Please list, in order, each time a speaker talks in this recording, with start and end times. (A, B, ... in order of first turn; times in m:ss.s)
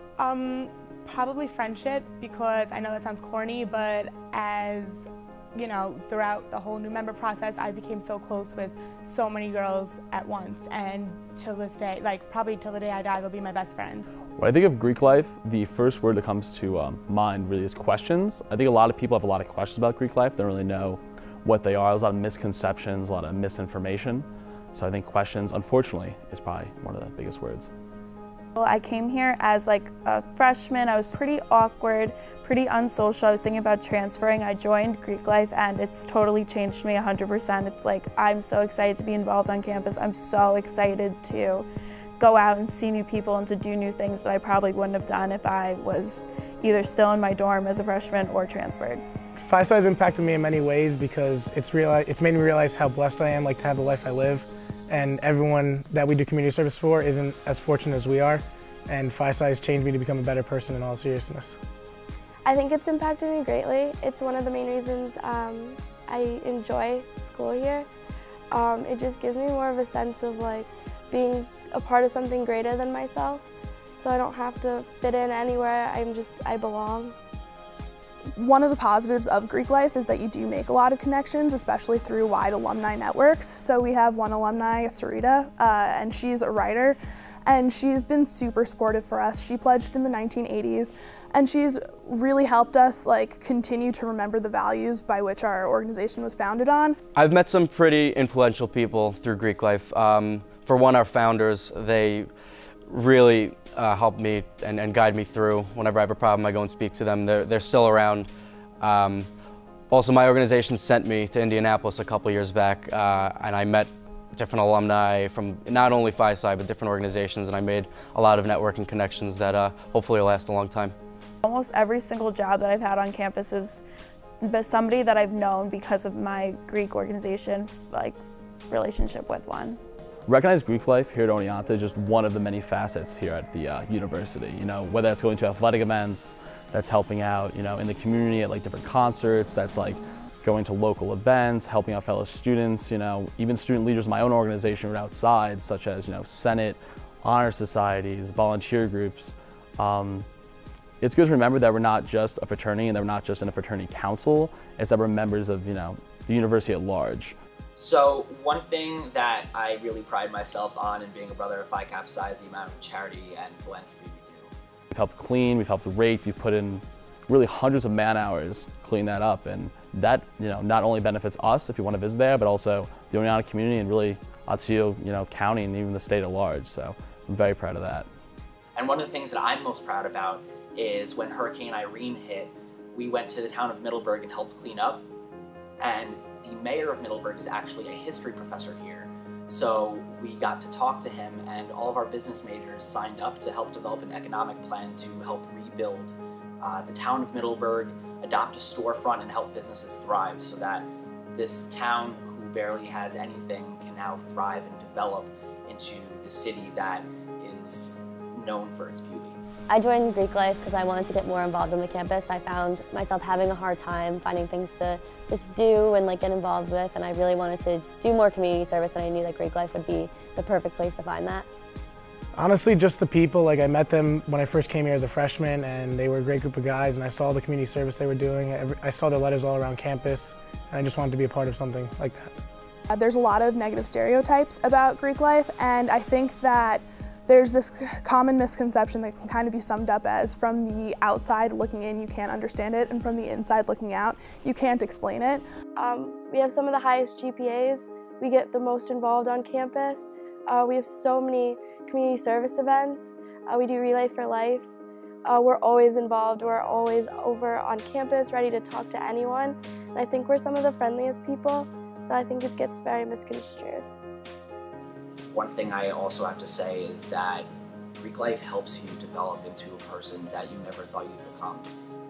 0:00.2-0:05.0 A
0:05.5-0:14.0 A
0:14.4-0:27.7 B
0:28.6-0:41.6 C
0:42.2-0:49.0 C
0:49.4-1:01.6 D
1:02.4-1:07.9 E
1:08.5-1:13.4 E
1:14.0-1:17.1 E
1:18.4-1:37.0 F
1:37.1-1:42.3 G
1:42.8-1:49.3 G
1:49.9-2:00.9 G
2:01.4-2:03.8 C
2:04.4-2:08.2 C
2:08.7-2:09.8 C
2:10.3-2:30.3 B
2:31.0-2:37.4 B
2:37.8-2:44.5 H
2:44.9-2:58.1 B
2:58.8-3:05.0 H
3:05.8-3:29.4 H
3:29.7-3:41.4 I
3:42.3-3:52.3 D
3:52.9-4:05.4 F
4:05.8-4:14.7 E
4:15.2-4:23.8 E
4:25.3-4:31.7 H